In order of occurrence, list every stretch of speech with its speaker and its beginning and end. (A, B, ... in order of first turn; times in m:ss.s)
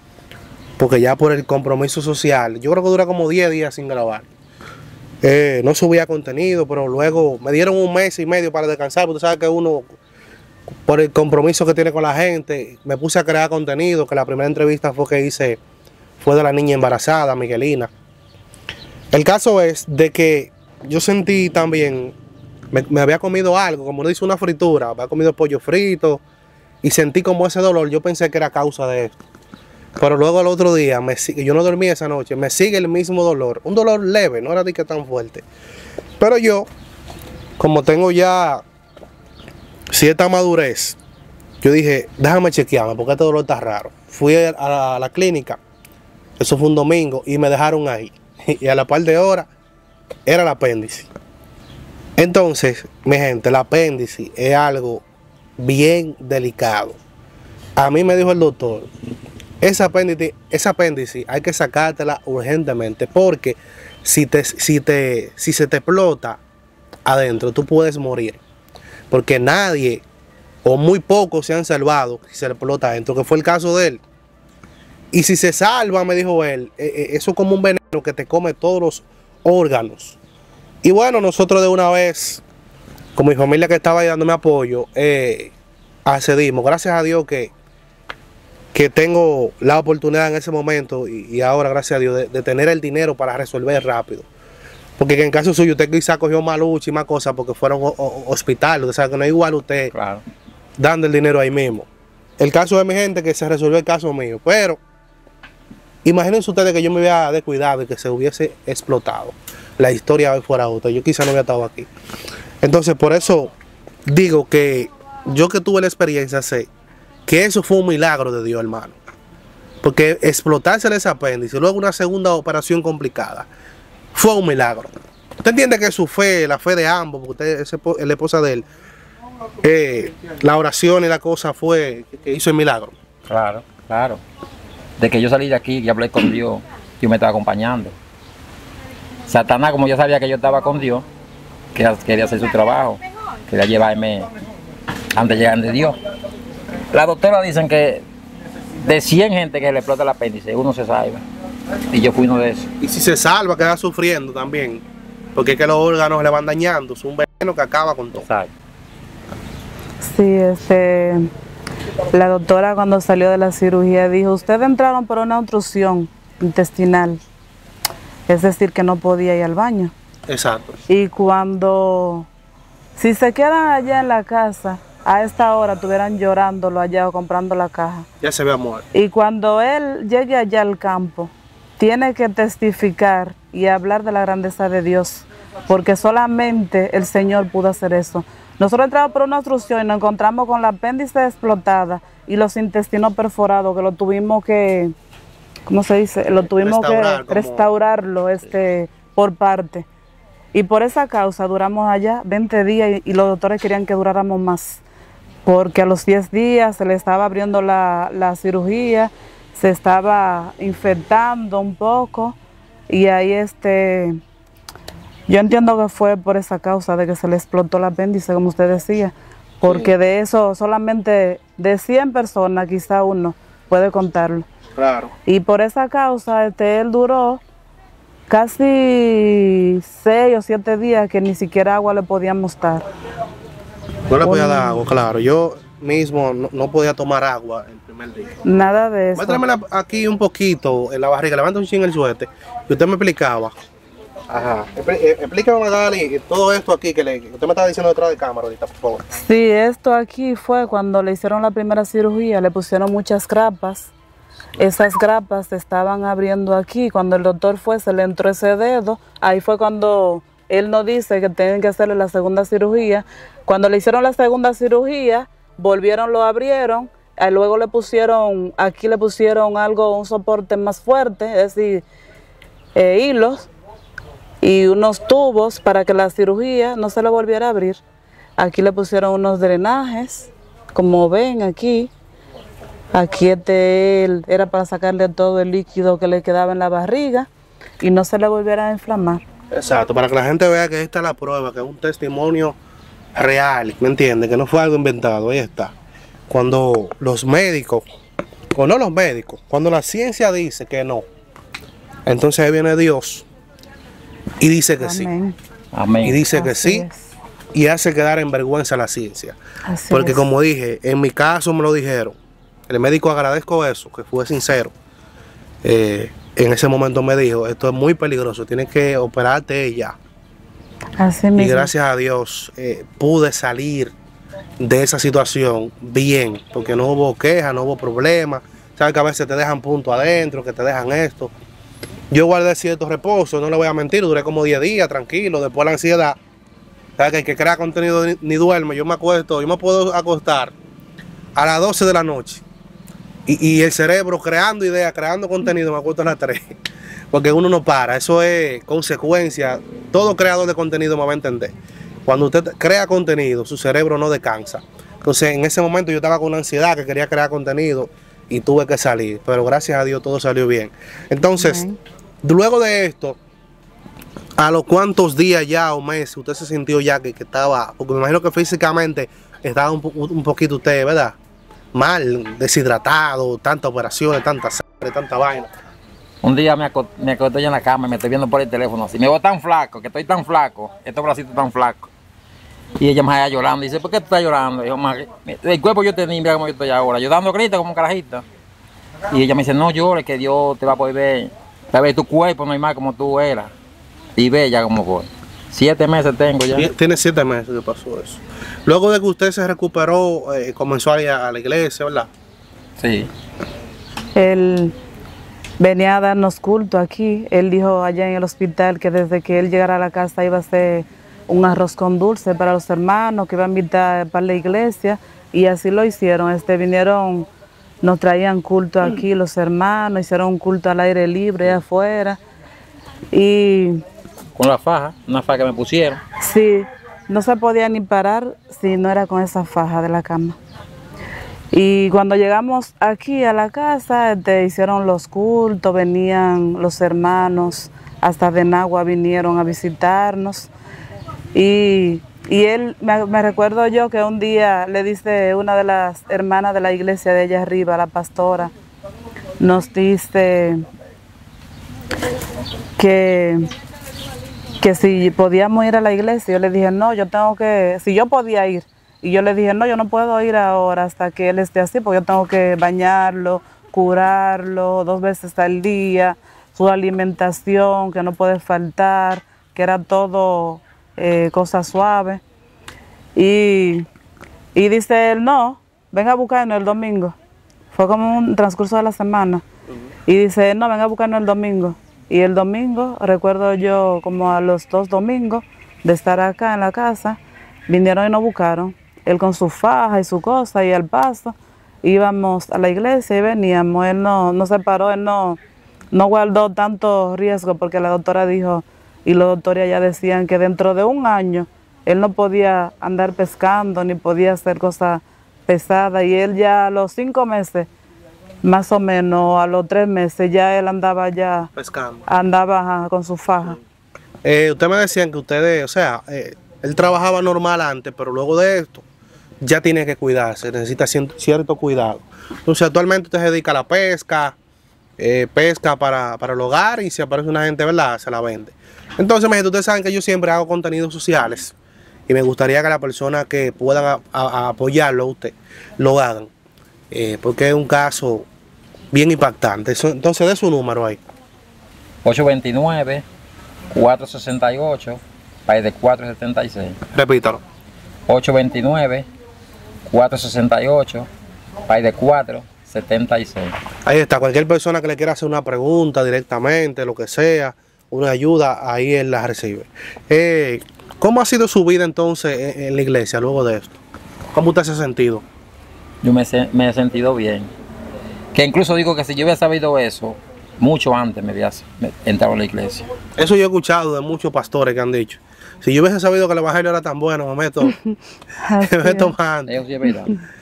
0:00.8-0:04.3 A
0:05.2-0:10.0 A
0:10.8-0:15.6 A
0:16.2-0:17.9 A
0:19.1-0:22.1 A
0:22.7-0:26.2 A
0:26.8-0:29.1 A
0:30.0-0:35.4 A
0:36.2-0:36.7 A
0:37.6-0:38.6 A
0:39.9-0:41.0 A
0:41.6-0:45.6 A
0:46.4-0:49.5 A
0:50.3-0:51.1 A
0:52.2-0:55.0 A
0:55.6-0:57.0 A
0:57.8-0:58.9 A
0:59.6-1:06.4 A
1:07.1-1:08.4 A
1:09.1-1:10.0 A
1:10.6-1:14.0 A
1:15.1-1:20.2 A
1:20.8-1:22.4 A
1:23.2-1:25.5 A
1:26.0-1:27.5 A
1:28.7-1:34.3 A
1:35.0-1:39.9 A
1:39.9-1:40.2 B
1:40.8-1:41.9 A
1:42.4-1:44.8 A
1:46.0-1:51.9 A
1:52.6-1:53.5 A
1:54.1-1:56.7 A
1:57.3-1:59.0 A
1:59.8-2:03.5 A
2:04.1-2:04.9 A
2:05.4-2:08.6 A
2:09.6-2:12.9 A
2:13.3-2:14.2 B
2:15.0-2:18.0 B
2:19.3-2:21.0 B
2:21.7-2:24.3 B
2:25.1-2:26.0 B
2:26.9-2:28.0 B
2:28.8-2:31.2 B
2:31.9-2:32.7 B
2:32.8-2:34.8 A
2:35.3-2:38.2 A
2:38.1-2:38.5 B
2:40.0-2:41.3 C
2:42.1-2:47.2 C
2:48.3-2:49.9 C
2:50.3-2:50.8 A
2:50.9-2:52.3 C
2:53.0-2:58.1 C
2:58.2-2:58.8 A
2:58.9-3:14.9 C
3:15.7-3:19.8 C
3:16.5-3:17.7 A
3:20.5-3:24.8 C
3:25.4-3:32.4 C
3:32.9-3:34.2 C
3:35.3-3:44.5 C
3:39.6-3:39.9 A
3:44.8-3:45.1 A
3:45.2-3:47.4 C
3:48.3-3:52.8 C
3:54.1-3:58.4 A
3:54.2-3:54.8 C
3:58.4-3:59.4 C
3:59.2-4:03.5 A
4:04.3-4:09.0 A
4:09.1-4:13.9 C
4:14.6-4:31.8 C
4:32.7-4:33.5 C
4:34.4-4:37.8 C
4:38.4-4:41.9 C
4:42.9-4:47.3 C
4:47.8-4:49.2 C
4:49.5-4:52.5 A
4:53.1-4:55.7 A
4:56.3-4:57.8 A
4:58.5-5:01.0 A
5:02.1-5:03.3 A
5:04.4-5:05.1 A
5:04.8-5:05.4 C
5:05.7-5:06.2 B
5:06.0-5:06.8 A
5:06.3-5:07.1 C
5:07.5-5:09.4 A
5:09.7-5:10.2 C
5:09.9-5:12.2 A
5:12.7-5:14.7 A
5:15.6-5:20.0 A
5:21.0-5:21.7 C
5:21.4-5:23.9 A
5:24.6-5:31.3 A
5:32.1-5:36.2 A
5:37.0-5:40.5 A
5:41.4-5:42.4 A
5:43.3-5:46.6 A
5:47.1-5:51.5 A
5:52.1-6:01.6 A
6:01.3-6:01.8 C
6:02.2-6:03.2 A
6:04.4-6:11.2 A
6:11.7-6:15.5 A
6:16.2-6:21.9 B
6:22.8-6:28.2 B
6:29.1-6:33.5 B
6:34.2-6:36.7 B
6:36.5-6:42.1 A
6:42.8-6:43.1 B
6:44.1-6:44.7 C
6:45.6-6:57.3 C
6:57.8-7:02.2 C
7:03.1-7:03.8 C
7:04.4-7:06.0 B
7:06.2-7:10.4 C
7:11.5-7:20.5 C
7:21.3-7:28.5 C
7:29.4-7:30.6 C
7:32.8-7:33.5 C
7:34.6-7:52.2 C
7:53.2-7:53.9 C
7:54.6-7:57.1 C
7:57.7-7:59.4 C
8:00.1-8:15.4 C
8:15.9-8:27.7 C
8:28.4-8:31.5 C
8:31.6-8:32.0 A
8:32.1-8:33.6 C
8:34.2-8:38.8 A
8:39.4-8:44.4 A
8:45.0-8:51.5 A
8:52.1-8:56.3 A
8:56.9-8:58.3 A
8:58.9-9:01.0 A
9:02.0-9:03.0 B
9:03.7-9:06.8 B
9:06.9-9:07.4 A
9:08.1-9:09.0 B
9:09.9-9:11.1 B
9:11.7-9:13.5 B
9:13.8-9:23.7 A
9:24.3-9:25.2 A
9:26.0-9:27.5 B
9:28.3-9:32.9 B
9:33.2-9:37.7 A
9:37.6-9:39.1 C
9:38.6-9:39.6 A
9:39.5-9:40.2 B